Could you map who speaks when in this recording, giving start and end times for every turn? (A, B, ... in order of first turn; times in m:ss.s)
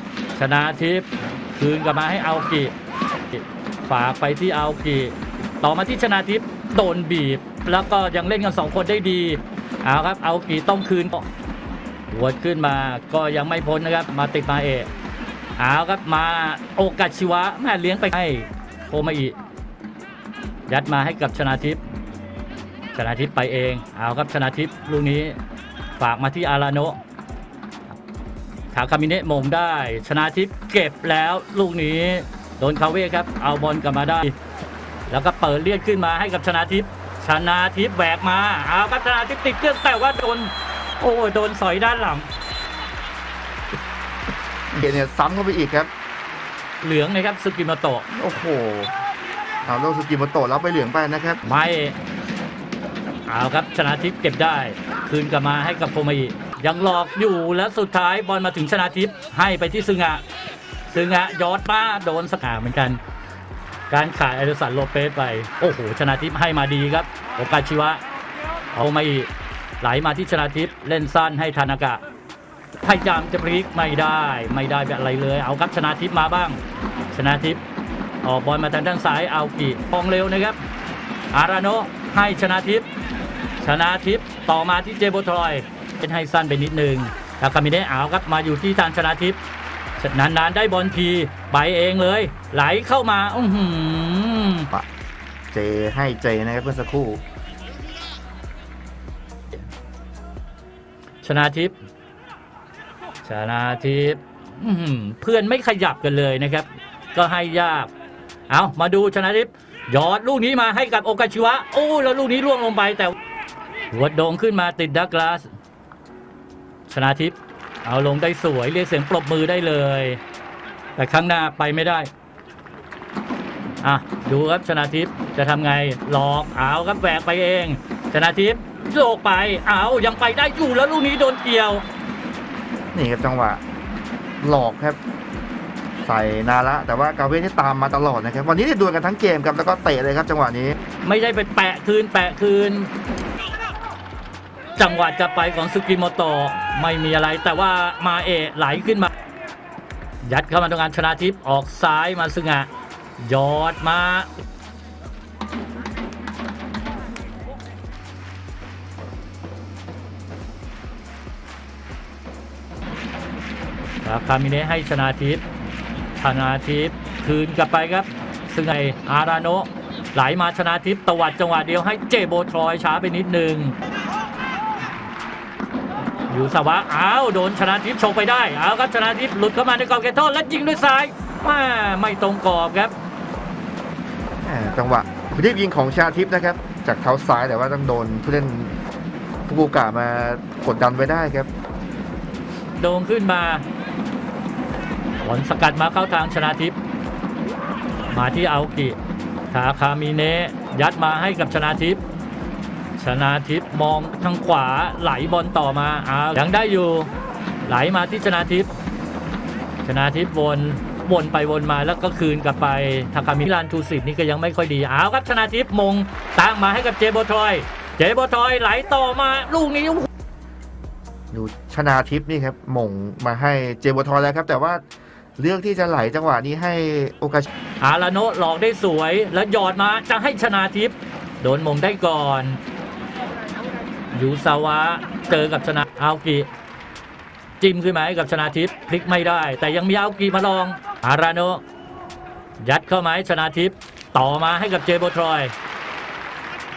0:00.4-0:02.7 A
0:03.3-0:11.3 A
0:12.1-0:14.9 A
0:15.6-0:19.4 A
0:20.7-0:21.8 A
0:22.9-0:25.4 A
0:26.0-0:27.0 A
0:28.7-0:34.4 A
0:35.1-0:42.3 A
0:44.7-0:45.9 B
0:46.8-0:48.0 A
0:48.1-0:48.9 B
0:49.6-0:51.4 B
0:51.4-0:52.0 A
0:53.3-1:00.2 A
1:00.9-1:03.0 A
1:03.9-1:08.0 A
1:08.7-1:09.3 A
1:09.8-1:12.0 A
1:12.8-1:16.6 A
1:17.1-1:17.6 A
1:18.2-1:20.6 A
1:21.3-1:22.9 A
1:23.6-1:29.4 A
1:30.0-1:34.7 A
1:35.5-1:37.2 B
1:41.2-1:41.8 A
1:43.2-1:47.9 A
1:48.5-1:53.1 A
1:53.9-1:55.5 A
1:56.9-2:00.2 A
2:01.0-2:02.1 A
2:03.8-2:11.8 A
2:12.9-2:13.6 B
2:14.4-2:15.0 B
2:16.0-2:20.8 B
2:21.0-2:22.9 A
2:24.8-2:29.1 A
2:30.2-2:34.3 A
2:44.0-2:45.4 A
2:46.2-2:53.8 A
2:56.3-3:02.9 A
3:04.4-3:08.8 B
3:09.4-3:11.5 B
3:12.8-3:13.6 A
3:15.2-3:16.8 A
3:18.1-3:19.0 A
3:19.5-3:22.0 A
3:23.0-3:27.1 A
3:27.6-3:28.7 A
3:29.8-3:40.1 A
3:41.3-3:44.8 B
3:45.4-3:47.5 B
3:47.8-3:52.6 A
3:54.1-3:56.5 A
3:57.6-4:01.6 A
4:02.6-4:05.5 A